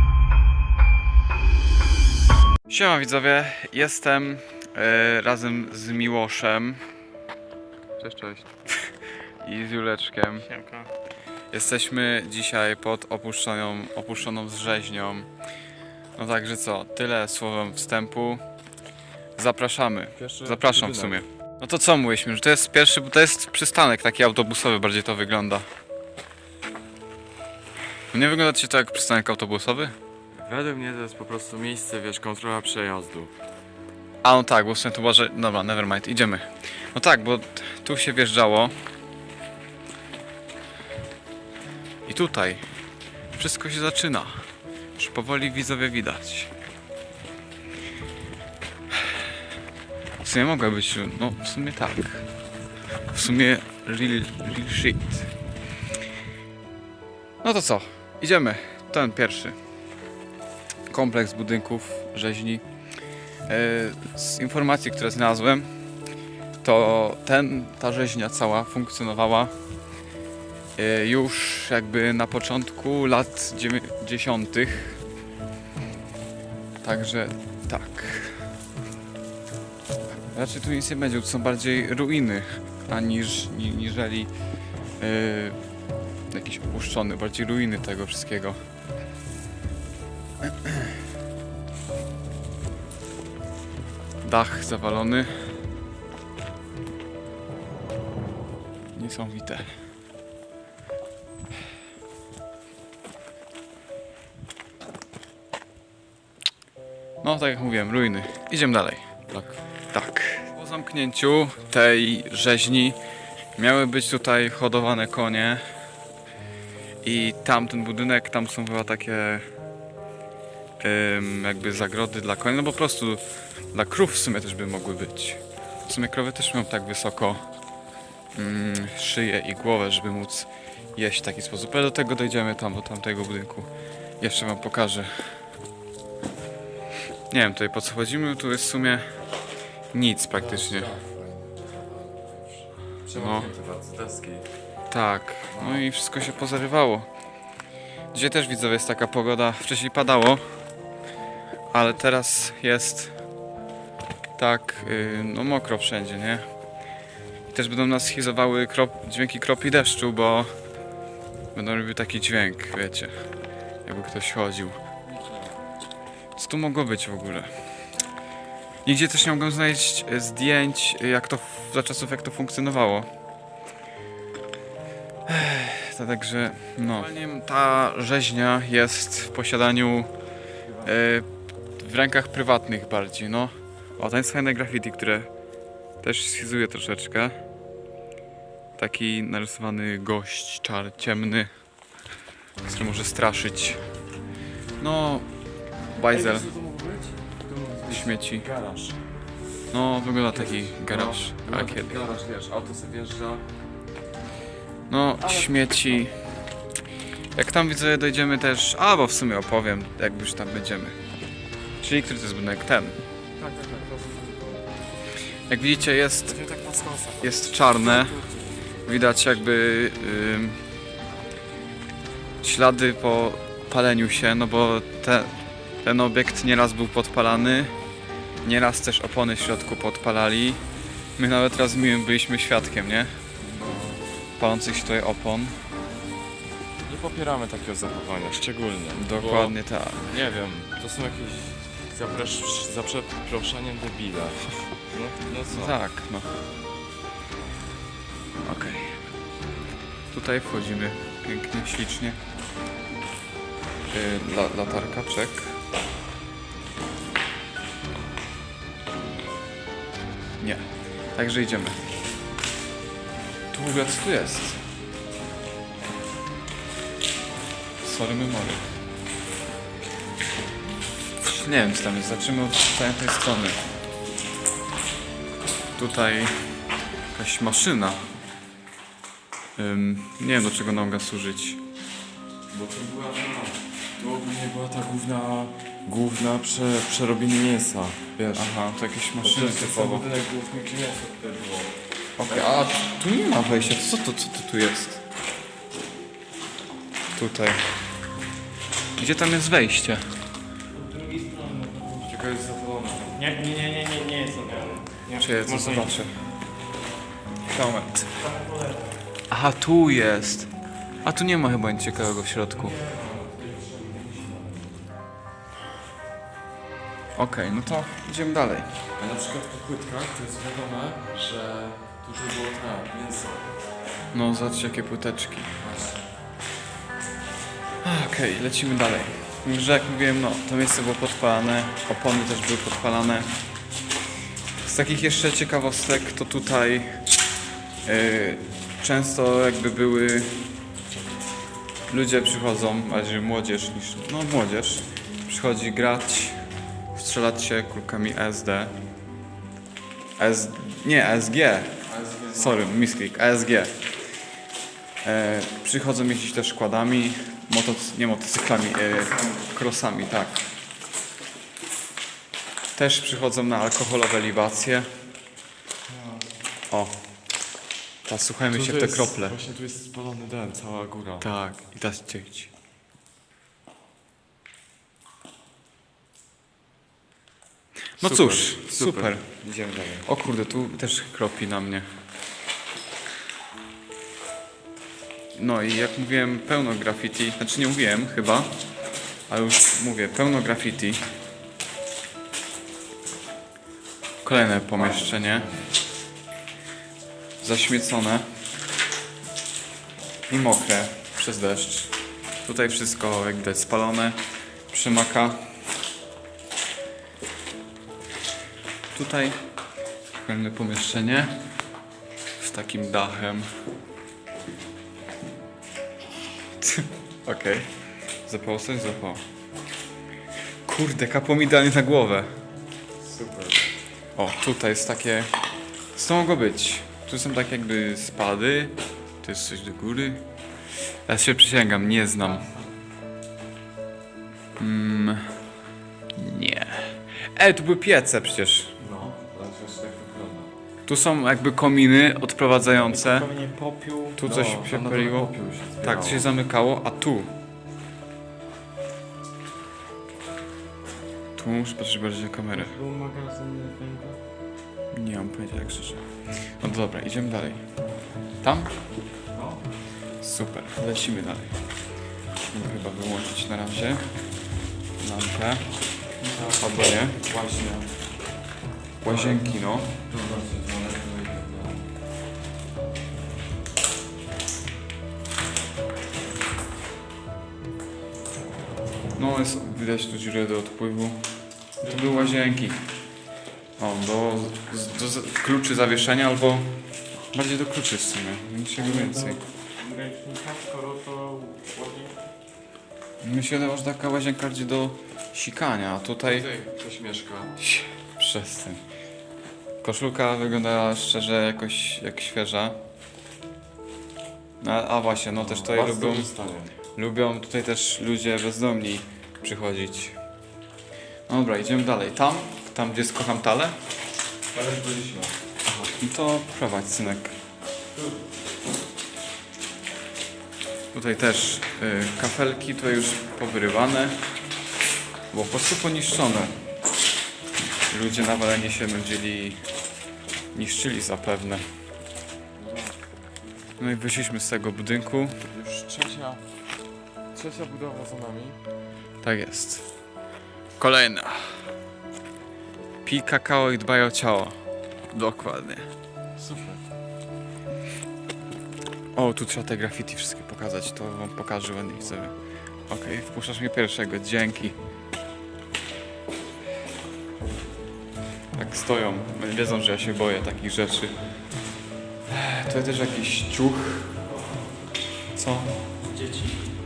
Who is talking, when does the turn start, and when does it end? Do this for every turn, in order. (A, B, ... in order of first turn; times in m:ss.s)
0:02.6-0:06.8 A
0:08.0-0:10.5 A
0:10.5-0:10.9 B
0:11.5-0:15.3 A
0:16.2-0:18.4 A
0:19.4-0:25.7 A
0:20.2-0:21.2 C
0:28.1-0:29.9 A
0:30.3-0:33.3 C
0:34.2-0:38.7 A
0:42.0-0:42.6 A
0:43.3-0:44.4 A
0:45.0-0:46.5 A
0:50.2-0:52.3 A
0:53.1-0:55.3 A
0:57.4-0:59.6 A
1:00.9-1:02.6 A
1:03.5-1:05.7 A
1:06.6-1:09.5 A
1:10.8-1:15.0 A
1:16.8-1:18.5 A
1:20.3-1:24.3 A
1:25.0-1:25.6 A
1:26.3-1:28.6 A
1:30.5-1:30.9 A
1:34.2-1:35.6 A
1:38.9-1:39.8 A
1:47.2-1:49.1 A
1:49.3-1:49.6 C
1:49.9-1:53.0 A
1:53.6-1:55.6 A
1:57.0-1:59.4 A
2:00.8-2:07.4 A
2:08.3-2:13.7 A
2:14.2-2:15.4 A
2:17.3-2:19.1 A
2:19.9-2:20.9 A
2:20.3-2:24.5 C
2:23.1-2:23.5 A
2:24.9-2:27.1 A
2:25.5-2:25.8 C
2:28.1-2:30.4 A
2:31.7-2:33.1 A
2:34.4-2:36.4 A
2:37.5-2:40.5 A
2:41.5-2:43.2 A
2:43.8-2:44.8 A
2:45.1-2:45.6 C
2:46.4-2:47.5 A
2:48.8-2:53.1 A
2:55.2-3:00.1 A
3:00.8-3:05.3 A
3:06.0-3:07.4 A
3:08.8-3:11.5 A
3:12.6-3:13.8 A
3:14.8-3:15.2 A
3:15.9-3:16.5 A
3:16.0-3:19.0 C
3:17.9-3:18.4 A
3:19.7-3:22.0 A
3:20.3-3:23.4 C
3:24.9-3:26.2 A
3:25.2-3:26.0 C
3:27.3-3:31.0 A
3:31.8-3:33.0 A
3:33.4-3:34.7 C
3:35.5-3:36.4 A
3:36.3-3:38.8 C
3:37.2-3:38.2 A
3:38.8-3:40.6 A
3:42.4-3:45.3 A
3:45.8-3:47.7 A
3:48.4-3:50.6 A
3:51.2-3:53.2 A
3:53.4-3:54.0 C
3:54.4-3:55.6 A
3:56.8-4:05.8 C
3:58.9-4:00.0 A
4:05.5-4:06.3 A
4:08.4-4:09.0 A
4:10.1-4:12.2 A
4:13.9-4:15.6 A
4:20.4-4:21.9 A
4:23.5-4:24.6 A
4:27.8-4:28.6 A
4:31.2-4:33.6 A
4:35.8-4:36.6 A
4:37.1-4:38.0 A
4:39.6-4:41.6 A
4:42.5-4:48.5 C
4:48.3-4:50.0 A
4:49.2-4:51.8 C
4:52.2-4:55.0 A
4:57.1-4:57.6 A
4:59.0-5:00.2 A
5:00.7-5:02.1 B
5:02.0-5:03.3 C
5:03.2-5:05.9 B
5:04.5-5:04.8 C
5:05.2-5:06.3 A
5:07.5-5:08.2 A
5:08.2-5:09.0 B
5:09.3-5:10.5 A
5:11.0-5:12.8 A
5:12.6-5:14.8 C
5:17.2-5:18.7 A
5:19.0-5:23.5 C
5:24.1-5:25.6 A
5:25.6-5:26.1 C
5:27.8-5:33.3 A
5:34.6-5:37.0 A
5:37.8-5:40.4 A
5:41.9-5:46.4 A
5:46.9-5:48.7 A
5:50.2-5:53.8 A
5:51.9-5:52.8 C
5:55.0-6:00.5 A
6:02.7-6:04.9 A
6:05.9-6:06.2 C
6:06.7-6:07.0 A
6:08.0-6:09.4 A
6:08.5-6:11.2 C
6:11.2-6:12.5 A
6:18.0-6:19.4 A
6:18.0-6:20.0 C
6:20.0-6:21.9 A
6:25.3-6:28.5 A
6:29.3-6:31.0 A
6:34.2-6:35.5 A
6:34.7-6:35.6 C
6:37.4-6:38.3 A
6:40.3-6:41.9 A
6:42.4-6:45.4 A
6:48.9-6:49.4 A
6:50.2-6:51.4 A
6:52.4-6:53.5 A
6:56.6-6:57.7 A
6:58.2-6:59.2 A
7:00.6-7:02.3 A
7:03.0-7:03.6 C
7:04.2-7:05.3 A
7:05.9-7:10.2 A
7:11.0-7:12.4 A
7:12.2-7:12.6 C
7:14.6-7:15.4 A
7:16.1-7:18.7 A
7:18.8-7:20.5 C
7:20.8-7:23.3 A
7:22.9-7:24.2 B
7:24.2-7:25.3 A
7:24.2-7:26.3 C
7:25.8-7:27.3 A
7:31.4-7:32.8 A
7:32.5-7:34.2 B
7:34.9-7:37.6 A
7:38.4-7:38.7 A
7:39.3-7:39.6 C
7:40.2-7:41.6 A
7:42.5-7:44.1 A
7:45.0-7:45.6 A
7:46.2-7:47.9 C
7:46.6-7:47.2 A
7:49.0-7:49.9 A
7:49.0-7:51.8 C
7:59.2-8:01.3 A
8:01.8-8:02.8 A
8:03.8-8:06.7 A
8:07.3-8:09.4 A
8:08.8-8:12.2 B
8:13.2-8:16.5 A
8:16.3-8:17.6 C
8:17.6-8:18.8 A
8:19.8-8:22.8 A
8:24.6-8:26.3 A
8:25.3-8:26.8 C
8:26.9-8:30.2 A
8:31.3-8:33.8 A
8:34.5-8:35.3 C
8:35.8-8:37.4 A
8:40.9-8:44.2 A
8:45.3-8:46.5 A
8:47.9-8:49.6 A
8:50.5-8:51.6 A
8:52.6-8:53.0 C
8:53.8-8:55.4 A
8:55.4-8:56.4 C
8:57.3-8:58.6 C
8:59.2-8:59.9 A
9:00.8-9:01.7 A
9:03.0-9:04.6 A
9:05.1-9:05.9 A
9:06.4-9:06.8 C
9:09.1-9:12.3 A
9:12.9-9:14.8 A
9:18.5-9:21.3 A
9:22.3-9:24.1 A
9:25.3-9:25.8 A
9:26.0-9:26.6 B